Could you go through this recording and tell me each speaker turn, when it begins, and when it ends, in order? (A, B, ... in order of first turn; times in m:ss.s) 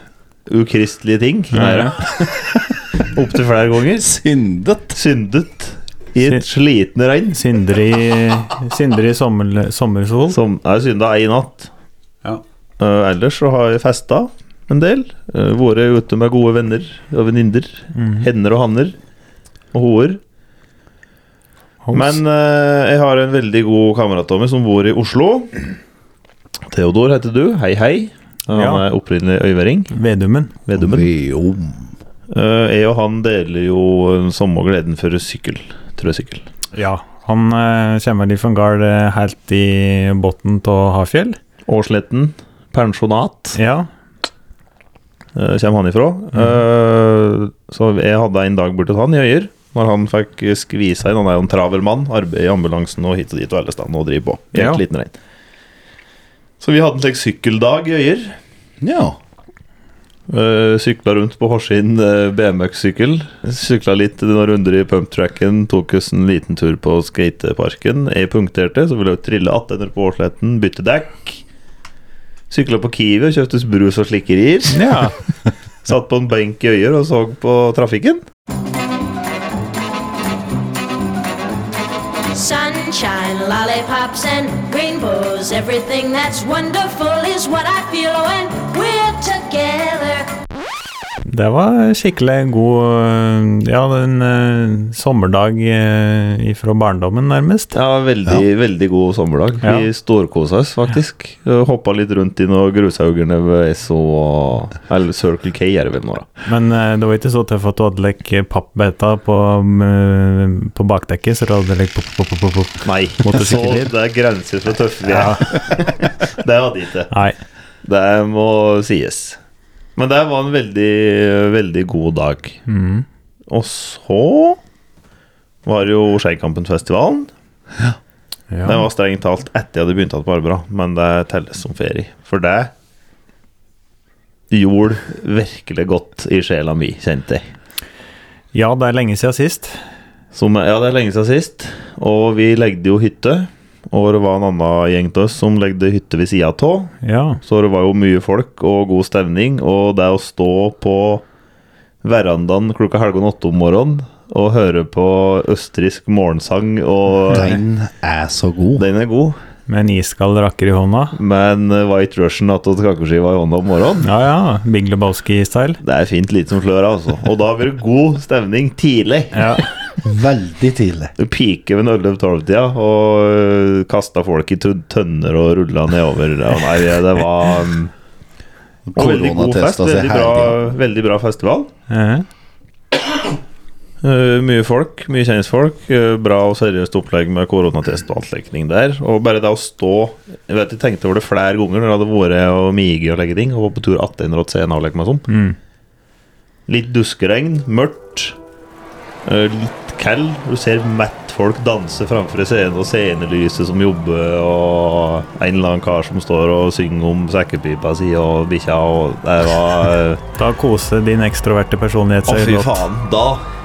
0:00.5-0:04.1 A
0:01.5-0:02.0 B
0:04.0-0:05.0 C
0:05.0-0:07.4 A
0:07.3-0:10.4 B
0:10.3-0:11.7 A
0:12.8-0:19.0 A
0:18.0-0:18.3 B
0:19.7-0:20.2 A
0:21.8-0:22.2 B
0:21.9-0:25.6 A
0:26.7-0:29.9 A
0:28.5-0:28.8 B
0:29.9-0:30.5 B
0:30.7-0:31.1 A
0:30.8-0:31.9 C
0:32.3-0:36.5 A
0:36.7-0:41.4 B
0:41.7-0:43.6 A
0:43.6-0:43.9 B
0:45.4-0:55.1 A
0:46.3-0:46.6 B
0:54.5-0:54.8 B
0:56.6-0:58.4 A
0:58.8-0:59.2 C
1:00.3-1:11.4 A
1:12.5-1:15.0 A
1:14.7-1:15.2 B
1:15.8-1:18.2 A
1:22.3-1:30.3 D
1:31.3-1:37.8 B
1:37.7-1:46.3 A
1:39.6-1:39.9 B
1:46.5-1:53.9 B
1:52.8-1:57.1 A
1:55.1-1:55.7 B
1:57.1-1:57.4 B
1:57.8-1:59.4 A
2:00.0-2:02.6 A
2:02.7-2:03.0 B
2:03.5-2:04.6 A
2:05.6-2:07.3 A
2:08.5-2:08.8 B
2:08.6-2:12.7 A
2:14.5-2:17.4 A
2:18.5-2:19.8 B
2:20.3-2:31.2 A
2:27.0-2:27.4 B
2:32.0-2:37.6 A
2:37.3-2:38.8 C
2:38.8-2:39.4 A
2:39.7-2:41.2 B
2:41.2-2:44.1 A
2:44.0-2:45.8 B
2:45.8-2:49.6 A
2:49.3-2:49.7 B
2:50.0-2:51.1 C
2:51.2-2:57.9 A
2:58.9-3:00.6 C
2:59.0-3:01.7 A
3:01.9-3:02.3 B
3:04.0-3:15.3 A
3:15.3-3:15.6 B
3:16.7-3:18.4 A
3:19.2-3:30.2 A
3:30.4-3:32.8 B
3:32.3-3:33.5 A